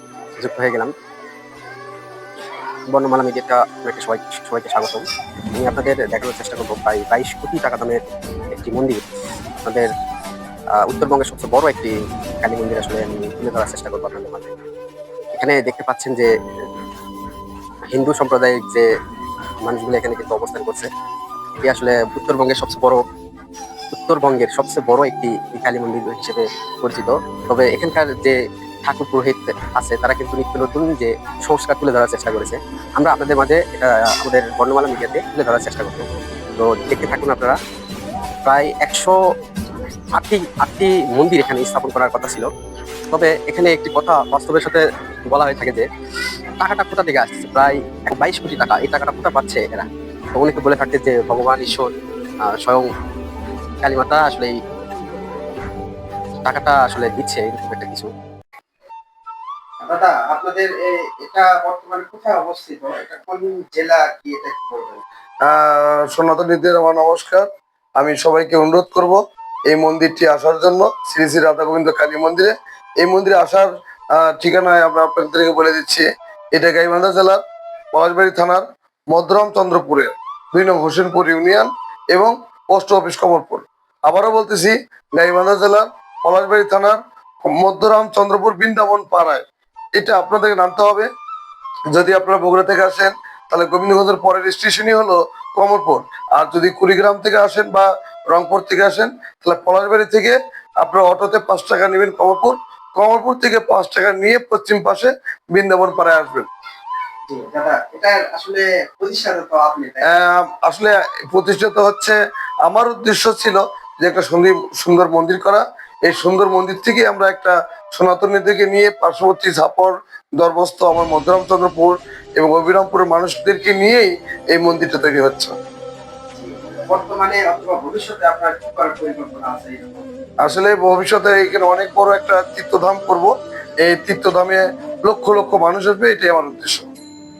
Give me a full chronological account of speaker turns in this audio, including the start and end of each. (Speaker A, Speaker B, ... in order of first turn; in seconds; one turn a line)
Speaker A: 0.4-0.9
Speaker A: 2.9-8.0
Speaker A: 8.5-9.0
Speaker A: 9.6-9.9
Speaker A: 10.8-14.5
Speaker A: 15.3-16.3
Speaker A: 17.9-18.9
Speaker A: 19.6-20.9
Speaker A: 21.6-23.0
Speaker A: 23.9-37.6
Speaker A: 38.5-39.2
Speaker A: 40.1-42.5
Speaker A: 43.1-45.9
Speaker A: 46.6-51.9
Speaker A: 52.5-52.9
Speaker A: 53.8-54.6
Speaker A: 56.4-58.1
Speaker B: 59.8-65.0
Speaker C: 65.4-89.4
Speaker C: 90.0-91.1
Speaker C: 91.9-106.5
Speaker B: 107.3-110.2
Speaker C: 110.0-125.5
Speaker B: 126.3-130.1
Speaker C: 130.4-136.9